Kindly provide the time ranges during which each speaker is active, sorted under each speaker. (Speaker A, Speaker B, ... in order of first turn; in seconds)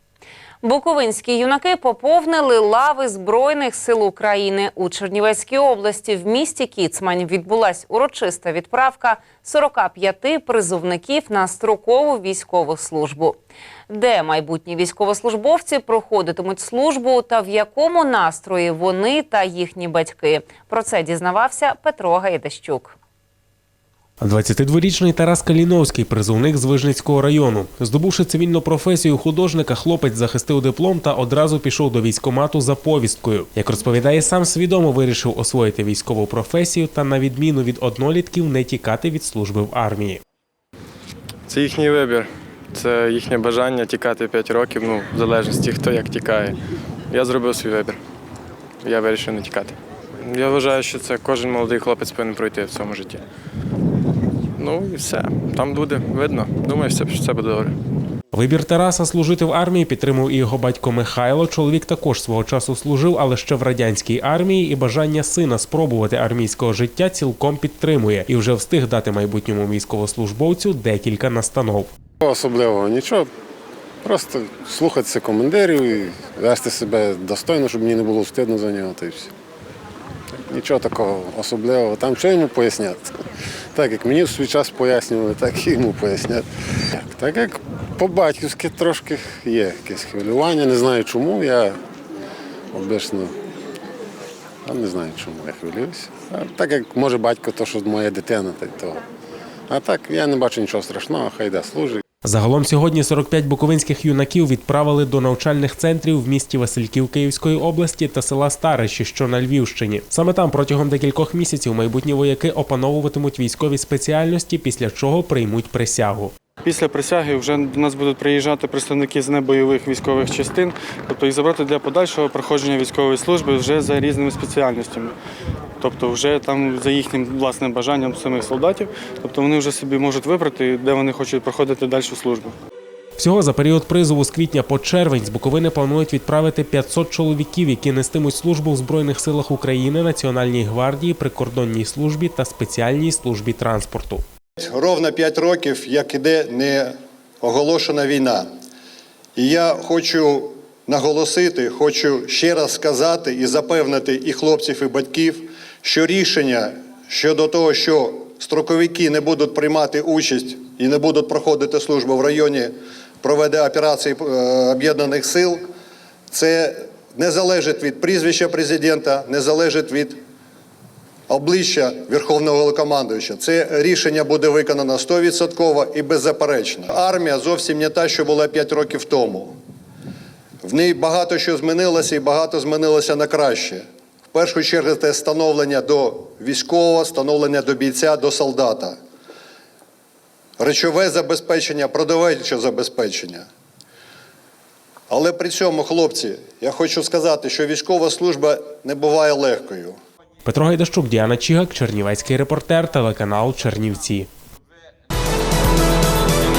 Speaker A: 0.6-13.4, 13.9-22.9
Speaker B: 24.2-40.2, 58.3-71.9, 102.2-116.3, 133.2-144.2, 200.4-204.3
Speaker C: 41.5-46.6, 47.1-48.0, 48.8-53.2, 54.6-57.8
Speaker D: 72.2-73.3, 74.0-79.3, 80.5-83.2, 83.7-91.8, 92.7-93.3, 94.7-99.0, 99.7-102.0
Speaker E: 116.6-125.1, 125.8-132.6
Speaker F: 144.6-148.5, 149.4-165.7, 166.3-170.2, 171.3-179.6, 180.6-189.0, 190.6-193.5, 195.1-200.0